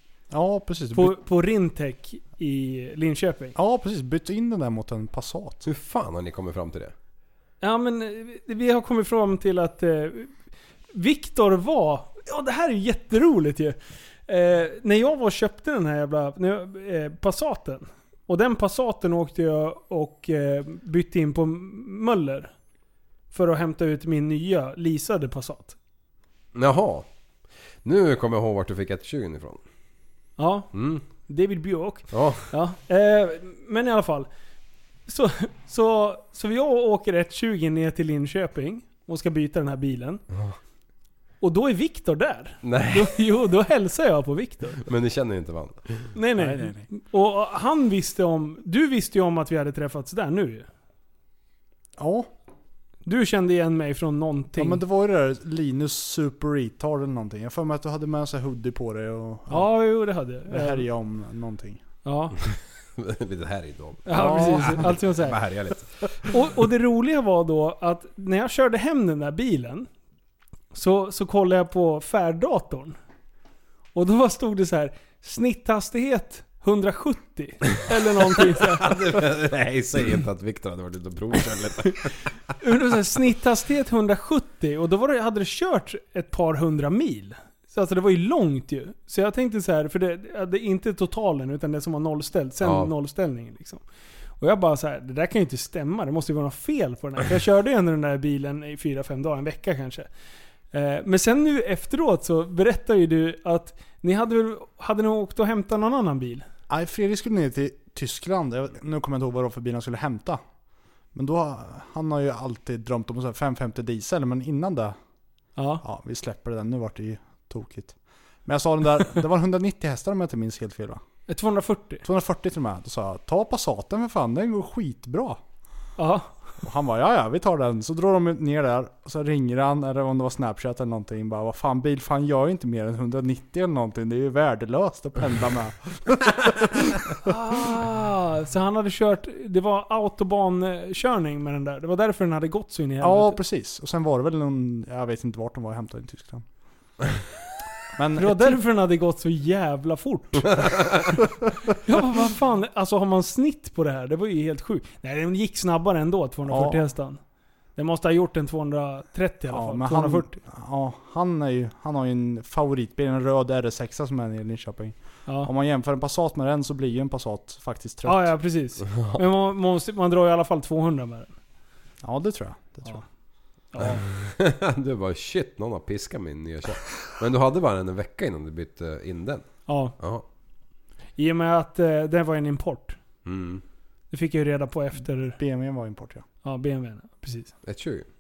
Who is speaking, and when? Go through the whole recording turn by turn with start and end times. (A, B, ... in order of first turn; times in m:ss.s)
0:00.3-0:01.2 A
0:00.9-0:03.6 B
0:03.6-0:05.7 A
0:05.7-0:06.9 C
0:07.6-0:10.3 B
0:10.9-0:22.5 B
0:23.3-0:25.8 B
0:26.5-0:27.1 C
0:27.8-0:29.6 C
0:30.4-0:30.7 B
0:30.7-0:31.0 C
0:31.2-0:34.3 B
0:32.1-0:32.5 C
0:35.1-0:40.2 B
0:41.4-0:44.8 B
0:42.6-0:43.2 C
0:44.8-0:46.1 C
0:46.2-0:50.7 B
0:46.4-0:46.9 A
0:52.0-0:52.3 A
0:53.1-0:54.8 B
0:54.6-0:59.7 A
0:59.5-1:00.8 B
1:00.5-1:01.8 A
1:02.0-1:02.4 B
1:02.5-1:06.4 C
1:04.1-1:05.4 B
1:04.1-1:04.9 A
1:06.3-1:09.9 B
1:10.7-1:13.0 B
1:14.0-1:19.0 B
1:18.8-1:22.2 C
1:22.6-1:33.8 B
1:32.6-1:32.9 C
1:34.4-1:40.1 B
1:40.7-1:46.4 B
1:46.7-1:50.4 A
1:51.2-1:55.0 A
1:55.6-1:55.8 B
1:55.8-2:01.0 A
2:01.3-2:02.0 B
2:02.0-2:05.4 A
2:06.0-2:06.4 B
2:06.6-2:17.3 A
2:17.2-2:23.4 B
2:23.0-2:26.5 A
2:28.0-2:28.6 A
2:28.2-2:30.7 B
2:31.8-2:37.2 B
2:36.5-2:36.8 A
2:37.8-2:40.4 B
2:39.5-2:48.3 A
2:48.1-2:51.4 B
2:52.0-2:53.0 A
2:53.7-2:54.0 B
2:53.8-3:00.2 C
2:59.7-3:00.0 B
3:01.2-3:03.0 B
3:03.2-3:03.6 C
3:04.1-3:05.4 B
3:05.4-3:06.2 A
3:06.4-3:07.5 B
3:07.6-3:08.1 C